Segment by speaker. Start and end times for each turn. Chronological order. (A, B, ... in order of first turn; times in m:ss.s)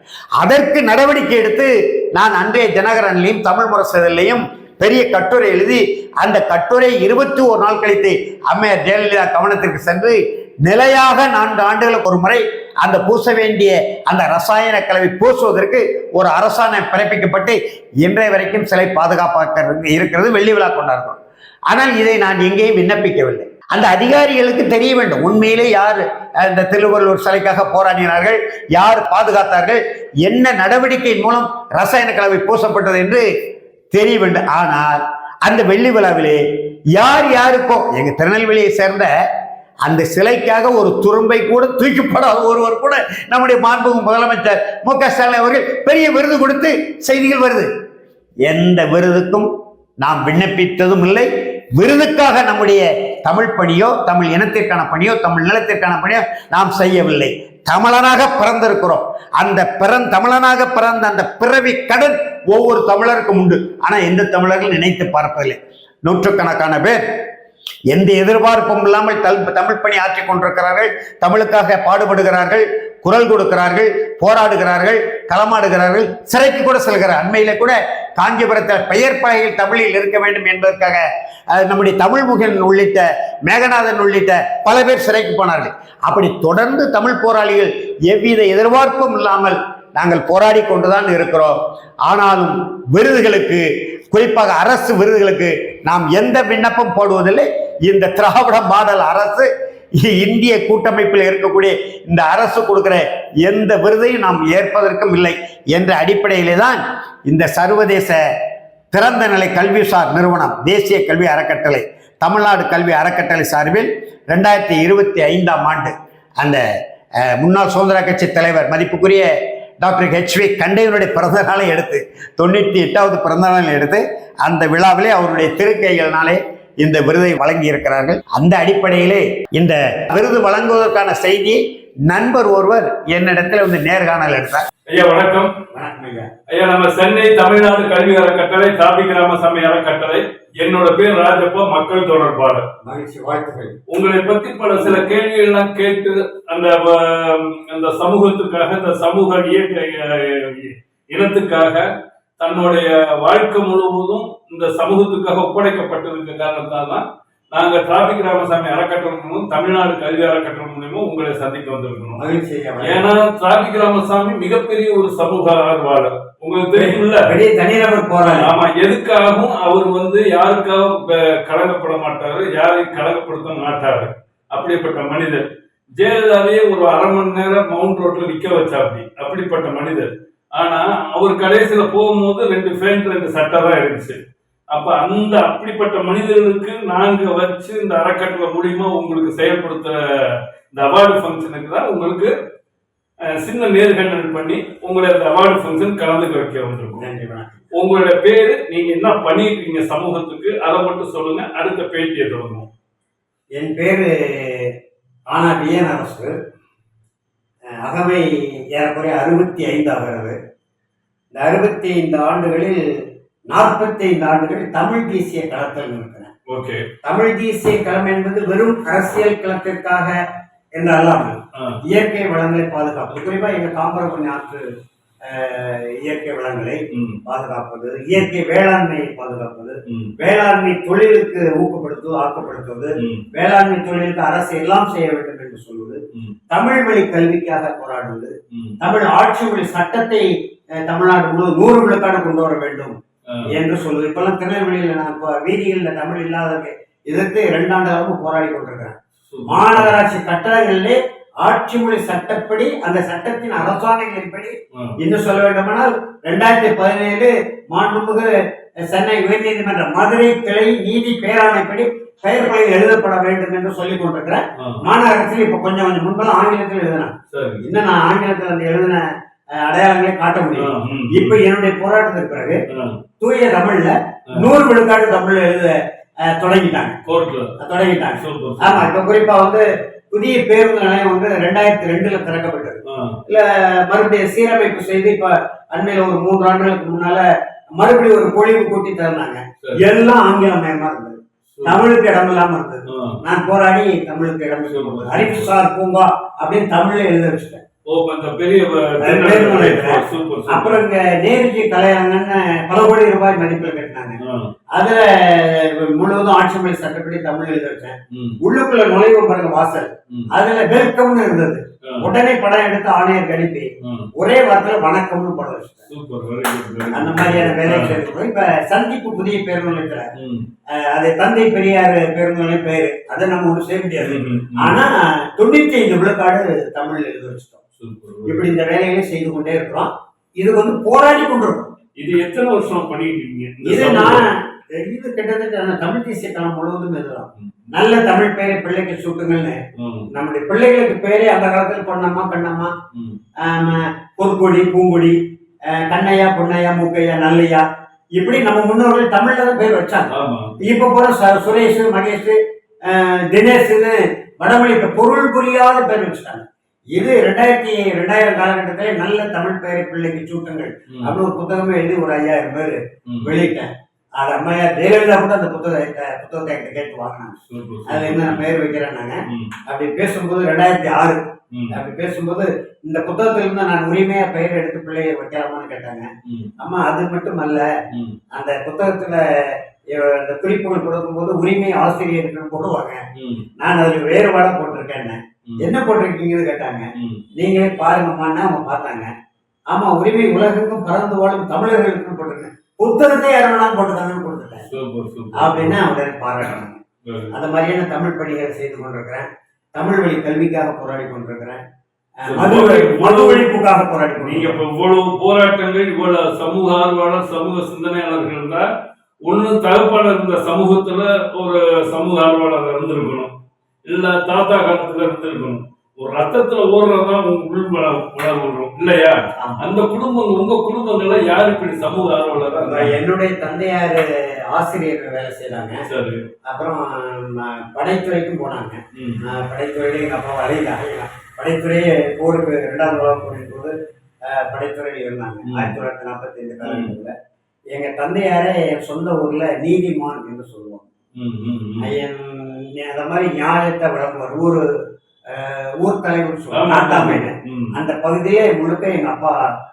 0:00.4-0:33.2 A
0:33.9-0:36.4 A
0:37.0-0:39.1 A
0:39.8-0:47.7 A
0:48.4-0:49.5 A
0:50.0-1:07.0 A
1:07.9-1:48.2 A
1:48.9-1:56.6 A
1:57.2-1:59.3 A
1:59.8-2:14.7 A
2:14.9-2:15.5 B
2:15.7-2:16.3 A
2:16.5-2:22.6 B
2:22.8-2:23.8 A
2:23.9-2:31.8 B
2:32.4-2:42.2 B
2:42.2-2:43.1 A
2:42.8-2:47.3 B
2:46.8-2:48.5 A
2:48.3-2:55.4 B
2:56.0-3:04.2 B
3:04.7-3:12.3 B
3:13.3-3:17.0 B
3:17.0-3:17.6 A
3:17.7-3:22.6 B
3:23.6-3:24.7 A
3:25.3-3:26.3 A
3:27.7-3:30.4 A
3:31.3-3:32.8 A
3:33.5-3:36.3 A
3:36.5-3:36.8 B
3:37.0-3:40.2 A
3:40.7-3:44.6 A
3:45.2-4:00.3 A
3:46.9-3:47.2 B
3:53.0-3:53.2 B
4:00.8-4:18.3 A
4:09.3-4:10.0 B
4:18.9-4:29.0 A
4:27.3-4:27.6 B
4:29.6-4:32.6 A
4:30.6-4:31.4 B
4:32.7-4:33.0 B
4:33.2-4:37.0 A
4:37.0-4:37.5 B
4:37.6-4:47.2 A
4:38.2-4:38.9 B
4:42.9-4:43.2 B
4:47.8-4:57.6 A
4:49.6-4:49.9 B
4:51.5-4:51.8 B
4:52.9-4:53.2 B
4:54.7-4:55.5 B
4:57.9-5:00.8 B
4:59.0-5:04.2 A
5:04.2-5:04.5 B
5:04.7-5:15.9 A
5:08.1-5:08.4 B
5:13.8-5:14.1 B
5:15.9-5:18.0 B
5:16.9-5:20.1 A
5:20.2-5:20.4 B
5:20.7-5:27.6 A
5:24.0-5:24.8 B
5:27.8-5:28.5 B
5:28.3-5:31.7 A
5:32.0-5:34.3 B
5:33.6-5:39.6 A
5:37.4-5:37.6 B
5:39.8-5:40.0 B
5:40.1-5:42.7 A
5:42.9-5:43.2 B
5:43.4-5:47.6 A
5:48.2-6:17.7 A
5:50.1-5:50.5 B
6:03.0-6:03.3 B
6:07.5-6:08.5 B
6:09.3-6:09.5 B
6:16.2-6:16.5 B
6:17.9-6:18.2 B
6:18.3-6:23.0 A
6:23.1-6:23.4 B
6:23.6-6:29.1 A
6:26.9-6:27.2 B
6:29.7-6:34.7 A
6:34.7-6:35.8 B
6:35.4-6:36.8 A
6:36.4-6:37.3 B
6:37.3-6:41.6 A
6:42.2-6:44.6 A
6:42.3-6:43.5 B
6:44.2-6:48.6 B
6:49.2-6:53.3 B
6:53.9-7:03.0 B
6:59.4-6:59.6 A
7:02.6-7:05.8 A
7:05.9-7:06.2 B
7:06.4-7:17.1 A
7:08.9-7:09.2 B
7:15.5-7:15.7 B
7:16.6-7:16.9 B
7:17.7-7:20.8 A
7:21.2-7:21.8 B
7:21.8-7:24.6 A
7:25.3-7:29.4 A
7:26.5-7:27.7 B